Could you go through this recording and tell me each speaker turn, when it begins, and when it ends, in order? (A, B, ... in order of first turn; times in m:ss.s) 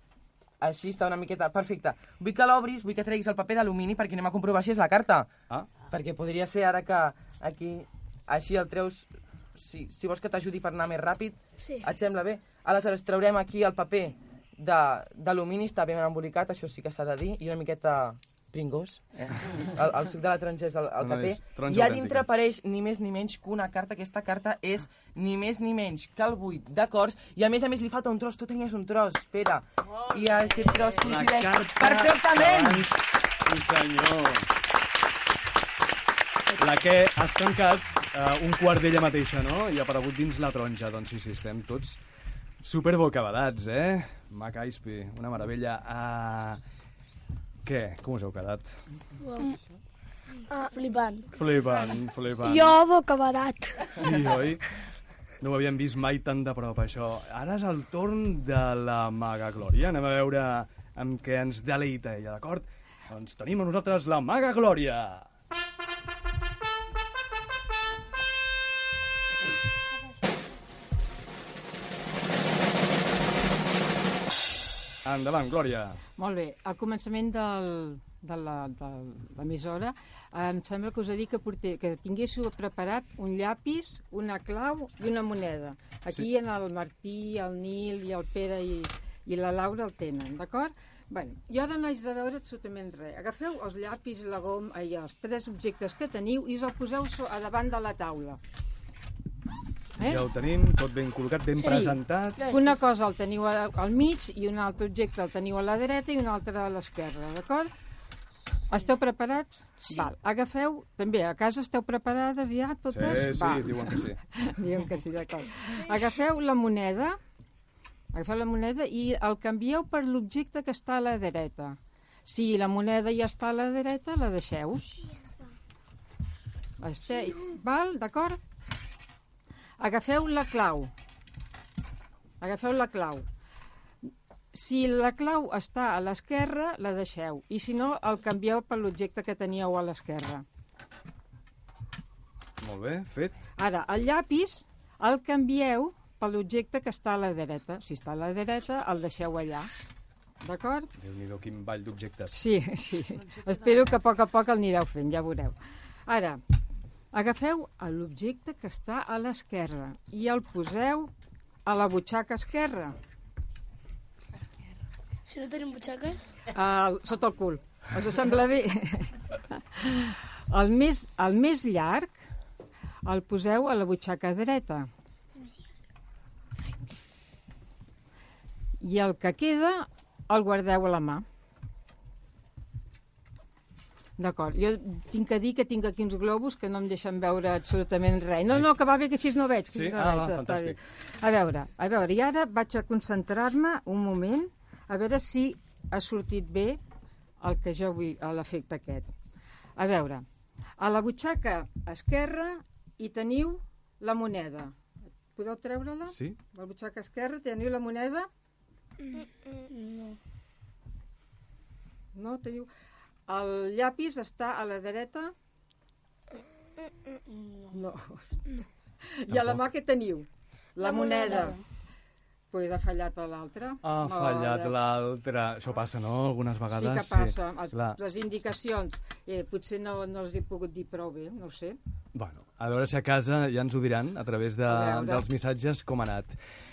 0:00.6-0:05.3 A
0:05.8-0:32.8 A
0:21.0-0:22.3 B
0:30.9-0:34.5 B
0:36.6-0:42.0 B
0:42.6-0:46.6 B
0:47.6-0:48.8 B
0:49.2-0:49.6 C
0:50.5-0:51.3 C
0:51.3-0:52.8 B
0:52.6-0:53.8 C
0:54.0-0:54.6 B
0:55.4-1:05.3 B
1:15.0-1:16.0 B
1:16.2-1:38.4 D
1:40.0-1:40.3 D
1:40.0-1:42.4 B
1:41.6-1:47.7 D
1:48.7-1:57.2 D
1:52.9-1:54.2 B
1:58.1-2:04.9 D
2:06.8-2:08.4 D
2:09.8-2:10.9 D
2:12.4-2:13.2 D
2:14.5-2:20.4 D
2:22.6-2:23.5 B
2:23.6-2:29.7 D
2:30.4-2:30.9 D
2:31.0-2:32.4 B
2:32.3-2:35.6 D
2:36.1-2:36.4 D
2:37.1-2:41.1 D
2:41.7-2:43.0 D
2:45.3-2:46.3 C
2:46.5-2:52.2 D
2:53.0-2:54.9 D
2:58.8-3:01.2 D
3:04.2-3:16.8 D
3:09.7-3:10.8 B
3:17.4-3:19.1 D
3:19.8-3:20.2 D
3:20.8-3:24.8 D
3:25.4-3:28.3 D
3:26.1-3:26.4 B
3:29.7-3:30.2 C
3:32.1-3:32.7 D
3:33.3-3:35.3 D
3:37.3-3:37.8 C
3:37.7-3:38.2 D
3:39.2-3:41.6 D
3:39.3-3:39.6 B
3:40.8-3:41.6 C
3:42.5-3:44.8 D
3:43.8-3:48.0 B
3:46.7-3:51.8 D
3:52.1-3:56.4 B
3:54.7-3:55.3 D